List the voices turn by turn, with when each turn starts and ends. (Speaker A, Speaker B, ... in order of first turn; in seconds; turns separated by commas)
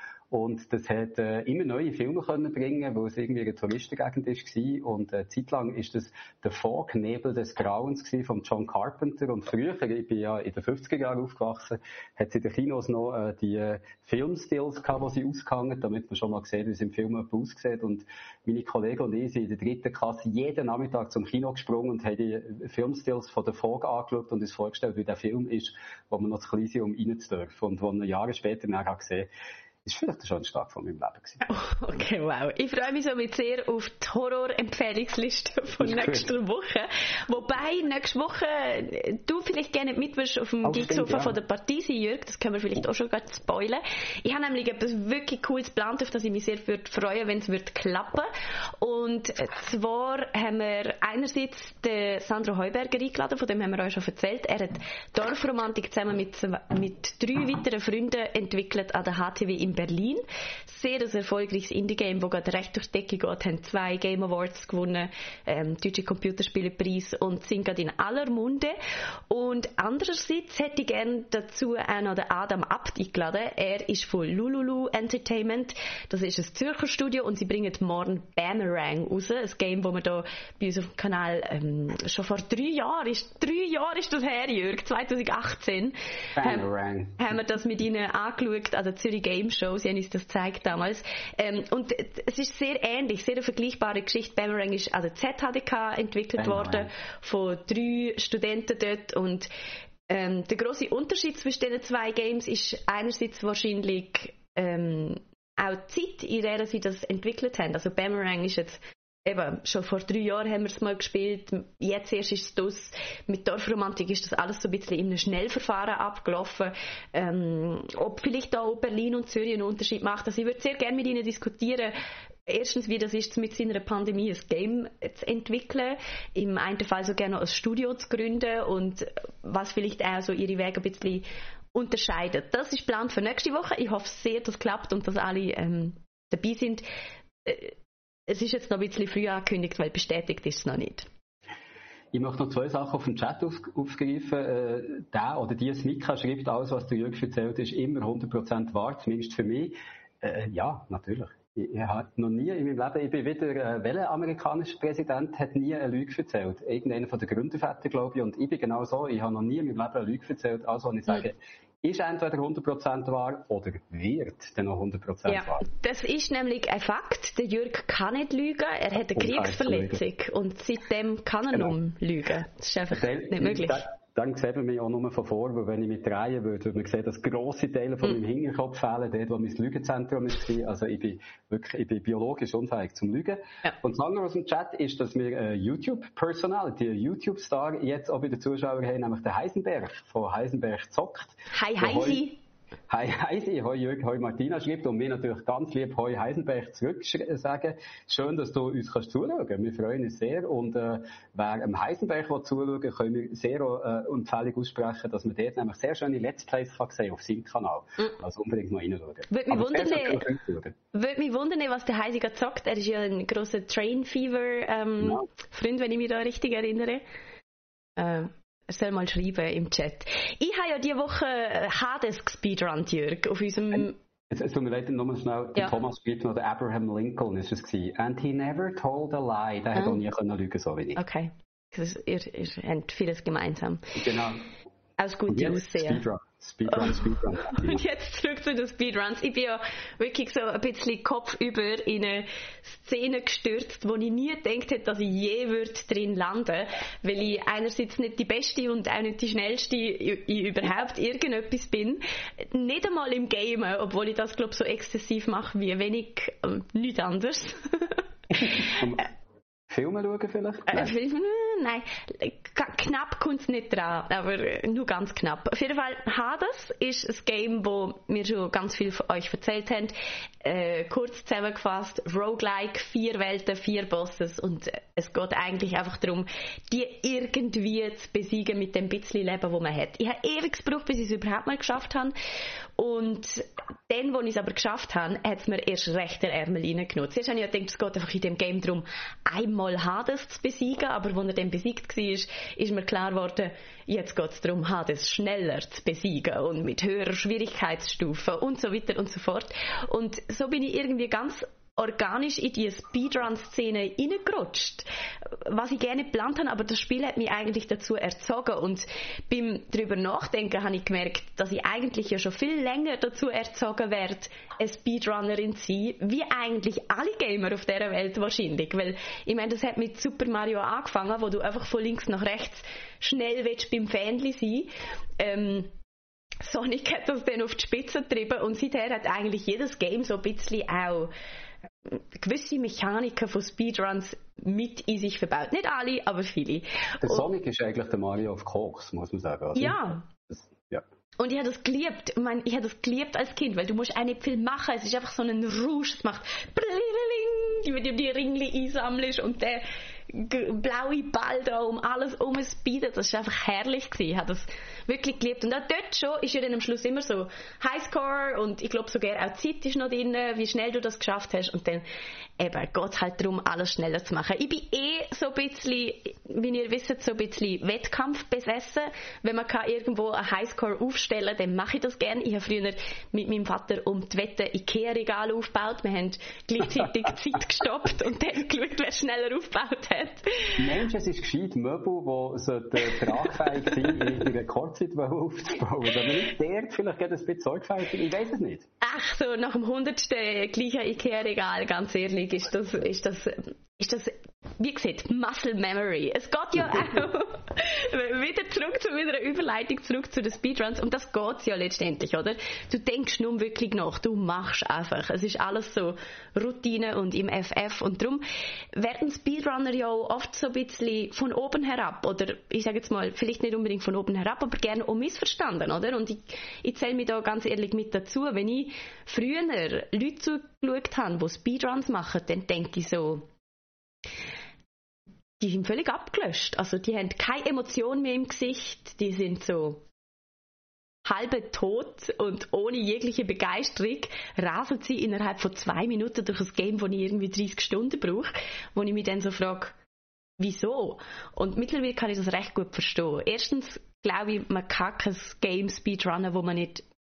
Speaker A: 0.3-29.3, Speaker A: 29.8-31.4, Speaker B: 31.4-48.3, Speaker A: 35.8-36.3, Speaker A: 40.6-41.3, Speaker B: 48.8-68.8, Speaker B: 69.3-86.7, Speaker A: 86.3-87.3, Speaker B: 87.2-99.5, Speaker A: 96.3-96.9, Speaker B: 100.1-121.9, Speaker B: 122.5-136.8, Speaker B: 137.4-137.7, Speaker B: 138.3-141.1, Speaker A: 142.1-165.6, Speaker B: 165.3-173.8, Speaker A: 169.1-170.0, Speaker A: 172.9-192.3, Speaker B: 191.5-192.4, Speaker A: 192.9-210.7, Speaker B: 209.3-210.3, Speaker B: 210.9-217.0, Speaker B: 218.0-224.0, Speaker A: 224.3-231.0, Speaker B: 230.9-233.8, Speaker A: 233.9-234.4, Speaker B: 235.0-236.0, Speaker A: 235.3-237.8, Speaker B: 236.7-258.8, Speaker A: 258.3-259.1, Speaker A: 259.7-260.9, Speaker B: 260.7-282.1, Speaker B: 282.8-325.7, Speaker B: 326.4-331.1, Speaker B: 331.9-337.3, Speaker A: 337.0-340.8, Speaker B: 339.6-340.1, Speaker B: 341.2-361.8, Speaker B: 362.4-380.6, Speaker A: 380.6-388.6, Speaker B: 388.8-408.2, Speaker B: 408.7-423.3, Speaker B: 425.4-429.8, Speaker B: 431.0-439.8, Speaker B: 440.4-446.8